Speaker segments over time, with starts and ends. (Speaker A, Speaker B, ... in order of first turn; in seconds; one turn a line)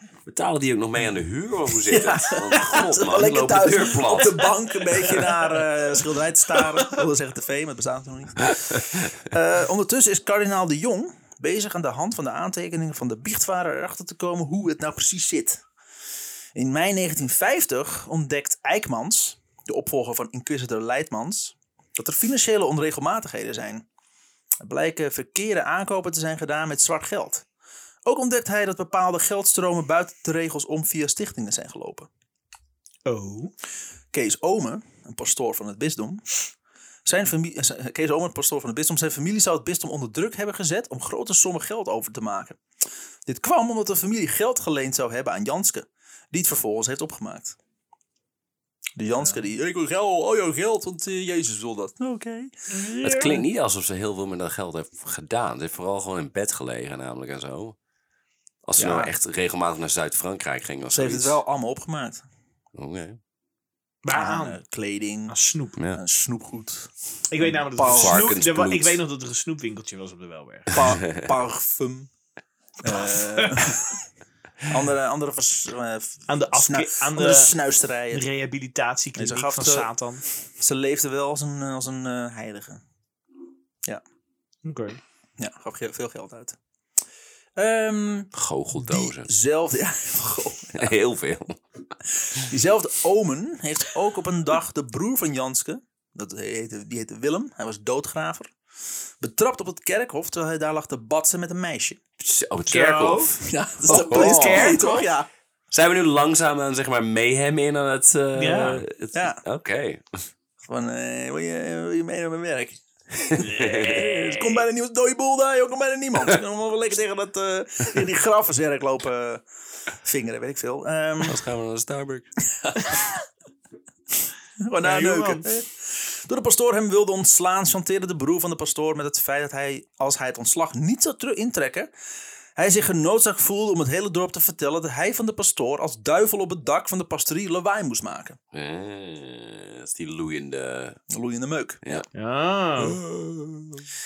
Speaker A: 0.3-5.3
Speaker B: 1.9-15.6
Speaker B: 16.5-23.8
Speaker B: 24.6-27.4
Speaker B: 28.1-32.1
Speaker C: 33.0-33.5
Speaker B: 34.1-36.2
Speaker B: 37.0-42.6
Speaker B: 43.2-47.5
Speaker B: 49.0-53.4
Speaker C: 52.7-53.4
Speaker A: 53.0-57.8
Speaker A: 58.6-61.4
Speaker B: 58.8-59.1
Speaker B: 60.9-62.2
Speaker A: 62.7-63.2
Speaker C: 64.0-64.6
Speaker B: 64.1-65.3
Speaker C: 65.3-65.8
Speaker B: 65.9-68.2
Speaker C: 67.3-70.8
Speaker A: 67.8-69.0
Speaker B: 70.7-72.1
Speaker A: 70.7-71.3
Speaker B: 72.8-74.0
Speaker C: 72.9-73.8
Speaker B: 74.7-78.2
Speaker C: 76.3-77.5
Speaker C: 78.1-80.2
Speaker B: 79.2-79.9
Speaker B: 80.6-82.8
Speaker C: 84.6-85.0
Speaker B: 85.4-86.6
Speaker B: 87.6-90.9
Speaker A: 88.3-89.3
Speaker A: 90.7-91.6
Speaker B: 92.3-98.5
Speaker B: 99.2-102.0
Speaker A: 102.2-104.8
Speaker C: 102.7-103.3
Speaker B: 103.4-105.3
Speaker C: 103.9-105.1
Speaker A: 105.7-110.3
Speaker C: 108.3-108.8
Speaker B: 109.1-109.4
Speaker B: 110.6-119.4
Speaker A: 113.3-114.1
Speaker C: 113.4-114.6
Speaker B: 120.0-121.4
Speaker A: 121.2-122.3
Speaker B: 122.6-123.0
Speaker B: 124.6-131.9
Speaker C: 124.8-125.5
Speaker B: 132.6-138.4
Speaker A: 138.5-141.0
Speaker B: 141.1-142.0
Speaker C: 142.1-143.0
Speaker A: 143.0-143.7